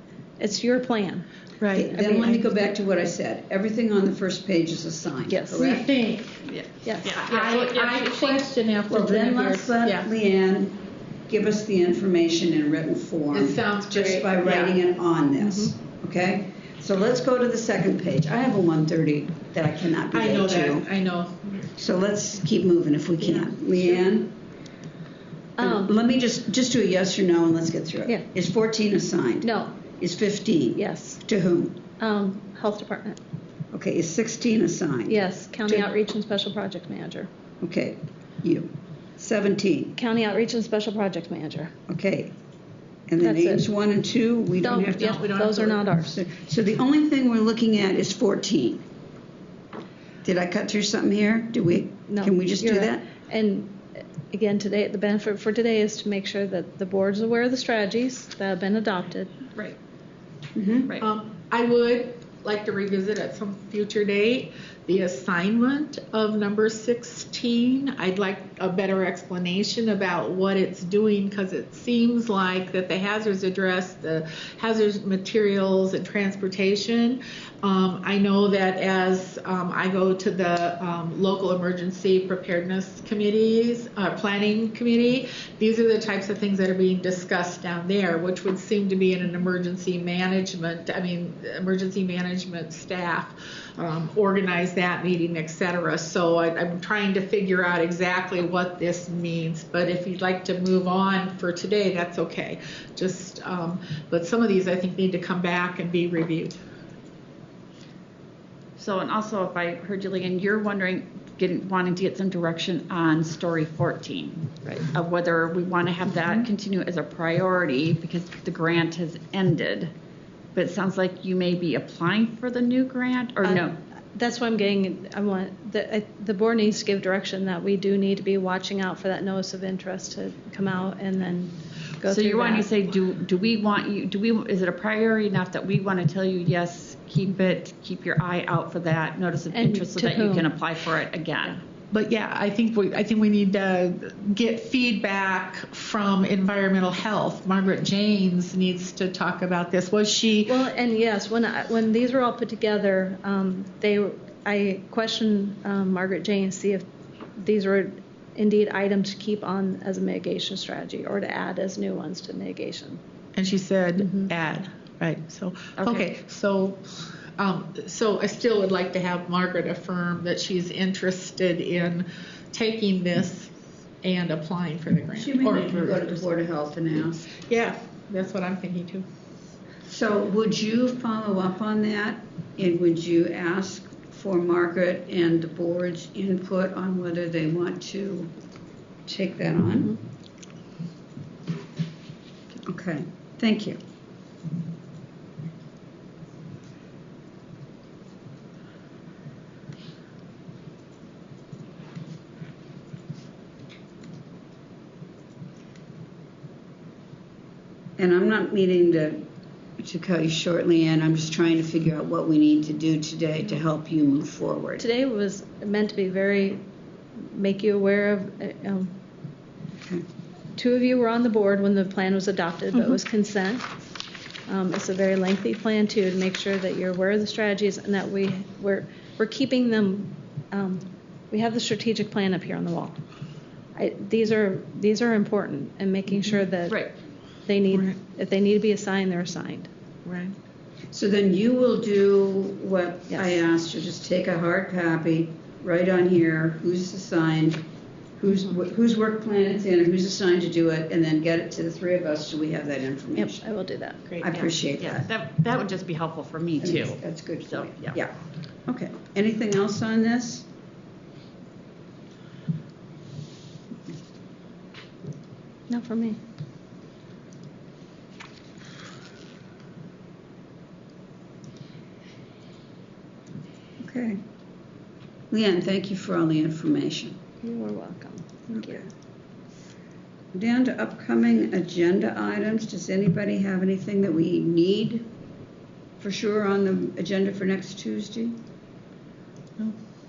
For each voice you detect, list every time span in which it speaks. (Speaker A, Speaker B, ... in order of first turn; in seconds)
Speaker A: 0.4-2.6, 5.3-5.7, 6.8-7.2, 15.4-15.7, 25.6-25.9, 29.4-29.8, 30.8-31.2, 32.0-33.2, 35.1-37.3, 40.0-41.7, 43.2-43.7, 44.6-46.2, 52.1-59.3, 123.4-132.7, 139.5-140.5, 150.4-163.0, 164.0-164.3, 214.8-219.0, 220.6-223.7, 224.5-233.0, 233.8-236.9, 237.4-239.7, 243.1-243.4, 253.2-254.1, 265.7-266.2, 277.4-278.9
Speaker B: 1.6-1.9, 5.5-6.4, 7.1-10.1, 13.3-14.8, 20.1-21.7, 45.1-45.8, 61.0-106.6, 141.9-150.5, 163.3-173.5, 174.0-176.2, 177.3-179.1, 240.1-240.4
Speaker C: 1.7-5.9, 8.9-20.9, 21.8-24.4, 25.6-31.8, 33.7-35.9, 37.6-40.0, 41.9-42.3, 43.1-48.9, 50.2-53.1, 60.5-60.9, 175.2-177.3, 179.9-188.3, 189.1-190.0, 192.6-193.8, 208.0-214.8, 219.8-220.1, 240.9-253.5, 254.2-255.1, 256.6-260.5, 273.8-274.2, 275.3-277.2, 278.5-278.9, 280.3-285.1, 286.0-288.4
Speaker D: 6.5-8.5, 108.8-119.9, 120.5-123.8, 132.1-141.6, 165.8-166.1, 236.7-236.9, 254.3-258.0